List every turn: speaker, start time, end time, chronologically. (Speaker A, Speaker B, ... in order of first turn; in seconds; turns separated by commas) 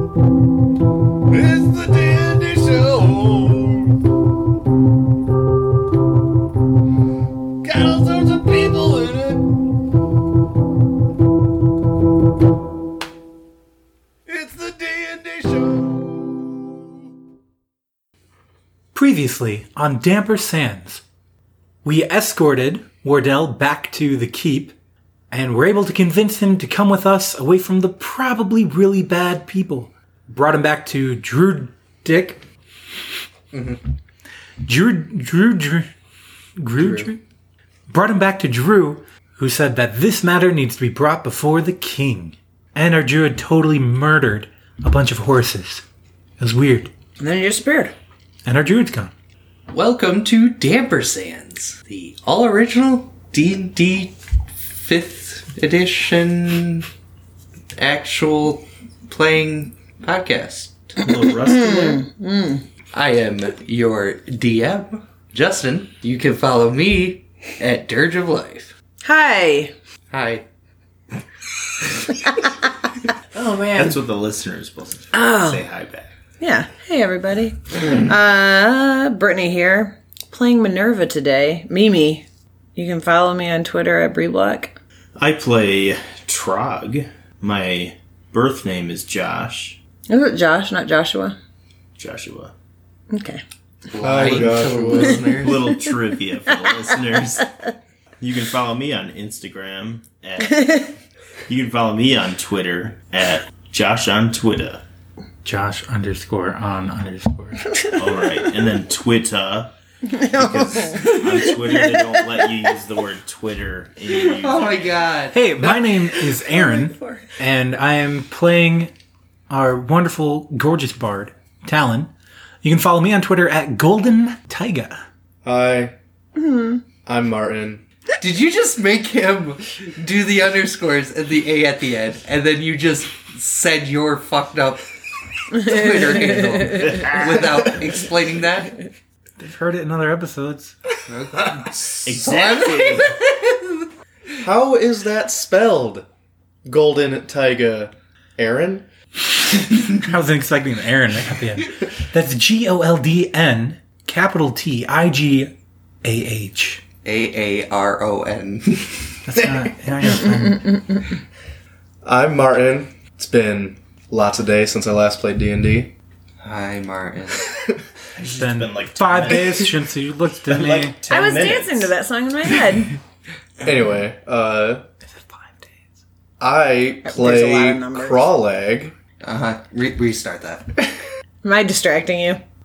Speaker A: 1.3-4.0, Speaker A: 7.6-9.5, Speaker A: 14.3-16.2, Speaker B: 18.9-21.0, Speaker B: 21.8-24.8, Speaker B: 25.3-32.4, Speaker C: 33.5-33.8, Speaker B: 34.6-35.9, Speaker B: 36.6-37.2, Speaker C: 36.8-37.1, Speaker B: 37.9-45.8, Speaker B: 46.4-46.9, Speaker D: 47.2-48.0, Speaker B: 48.5-49.1, Speaker C: 49.7-56.9, Speaker C: 57.8-61.0, Speaker E: 61.0-62.0, Speaker D: 61.4-62.6, Speaker C: 62.9-68.7, Speaker D: 69.0-69.7, Speaker C: 70.1-70.4, Speaker E: 73.3-76.1, Speaker D: 75.1-75.6, Speaker D: 76.4-84.7, Speaker E: 85.2-89.8, Speaker D: 90.1-91.4, Speaker E: 92.0-92.5, Speaker D: 93.1-93.4, Speaker C: 93.9-95.7, Speaker A: 94.0-95.3, Speaker E: 95.3-97.5, Speaker D: 96.5-97.5, Speaker E: 98.2-100.9, Speaker D: 100.5-100.9, Speaker E: 101.5-104.8, Speaker B: 105.5-107.8, Speaker E: 107.8-114.8, Speaker D: 110.1-112.5, Speaker C: 114.3-115.4, Speaker B: 115.3-118.9, Speaker D: 116.5-117.2, Speaker B: 119.5-122.1, Speaker B: 122.6-125.0, Speaker A: 125.4-125.9, Speaker D: 126.3-126.8, Speaker A: 127.0-127.8, Speaker C: 128.2-134.9, Speaker C: 135.5-138.8, Speaker E: 136.8-137.3, Speaker B: 139.4-140.8, Speaker C: 141.1-143.1, Speaker E: 142.0-143.2, Speaker A: 144.4-146.1, Speaker A: 146.7-148.8, Speaker B: 149.8-155.5, Speaker B: 156.0-156.8, Speaker C: 157.0-159.0, Speaker B: 159.2-161.0, Speaker A: 162.1-165.9, Speaker C: 166.4-167.5, Speaker A: 167.5-167.8, Speaker E: 168.2-169.8, Speaker B: 168.2-171.0, Speaker E: 170.5-171.9, Speaker D: 171.1-173.0, Speaker A: 173.6-174.8, Speaker B: 175.1-175.7, Speaker A: 176.4-178.9, Speaker D: 177.0-178.3, Speaker C: 179.2-180.7, Speaker D: 181.4-182.4